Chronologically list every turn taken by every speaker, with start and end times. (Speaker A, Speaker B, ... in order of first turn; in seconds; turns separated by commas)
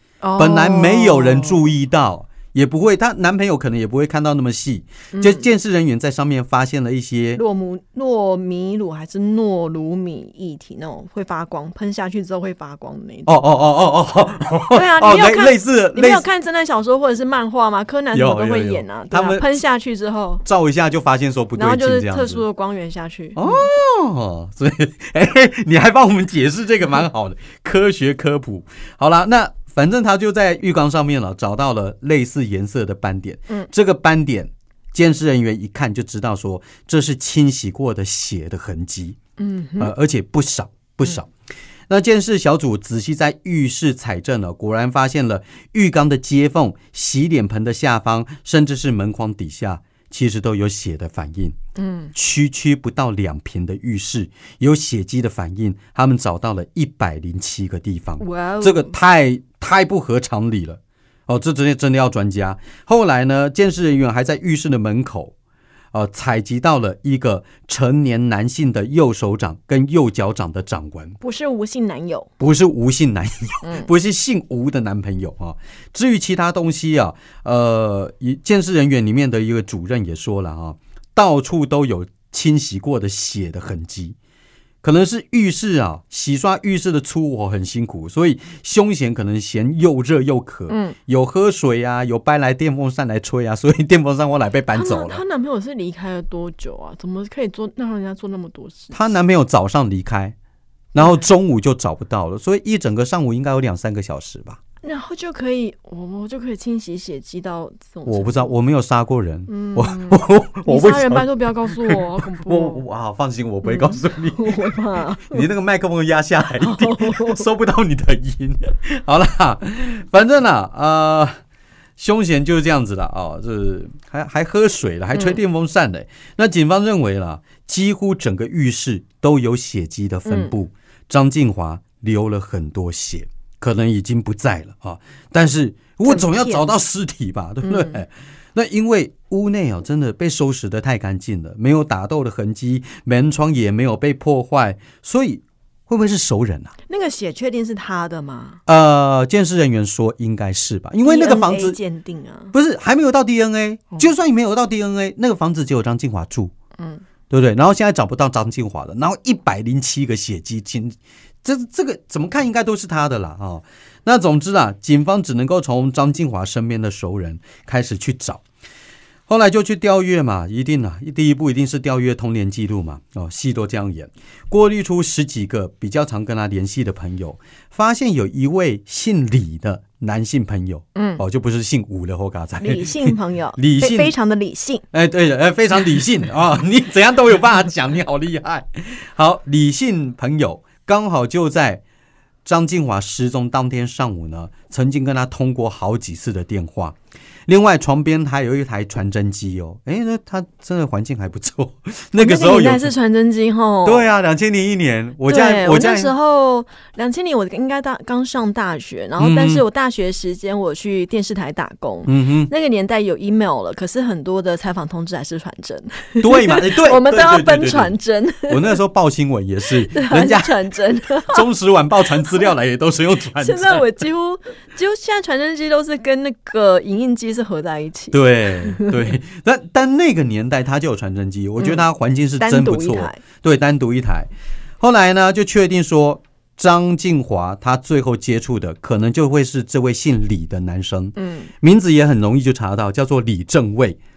Speaker A: 0.2-1.6, Speaker B: 0.4-7.4, Speaker A: 5.1-5.4, Speaker A: 7.3-13.3, Speaker B: 13.2-16.2, Speaker A: 14.7-20.4, Speaker B: 18.1-19.4, Speaker B: 20.4-22.4, Speaker A: 21.6-23.7, Speaker B: 23.3-39.2, Speaker A: 39.4-39.9, Speaker B: 39.8-41.3, Speaker B: 41.9-51.6, Speaker A: 51.8-52.1, Speaker B: 52.1-65.3, Speaker A: 58.2-58.9, Speaker B: 65.9-71.2, Speaker A: 71.2-72.3, Speaker B: 72.4-84.2, Speaker A: 73.6-73.9, Speaker B: 84.8-95.2, Speaker A: 90.7-91.0, Speaker A: 94.7-99.1, Speaker B: 98.9-100.3, Speaker B: 100.9-104.6, Speaker A: 104.8-108.5, Speaker B: 108.0-121.4, Speaker A: 109.5-112.8, Speaker A: 113.6-115.5, Speaker A: 116.6-117.5, Speaker B: 122.0-146.7, Speaker A: 125.1-125.4, Speaker A: 130.2-130.5, Speaker A: 136.0-136.6, Speaker A: 137.6-138.0, Speaker A: 146.9-148.6, Speaker B: 148.7-151.8, Speaker A: 151.0-152.5, Speaker B: 152.5-156.5, Speaker A: 156.8-157.0, Speaker B: 157.3-168.4, Speaker B: 169.3-184.1, Speaker A: 180.9-181.2, Speaker A: 182.6-184.8, Speaker B: 184.9-191.8, Speaker B: 192.4-196.9, Speaker B: 197.5-202.9, Speaker A: 202.2-204.1, Speaker B: 203.8-206.1, Speaker A: 205.3-218.8, Speaker B: 209.2-209.6, Speaker B: 212.0-212.5, Speaker B: 216.2-217.9, Speaker B: 218.5-220.6, Speaker A: 219.9-221.4, Speaker B: 221.2-223.9, Speaker A: 223.4-229.0, Speaker B: 228.1-244.0, Speaker A: 231.6-231.8, Speaker A: 232.4-233.2, Speaker A: 241.2-241.5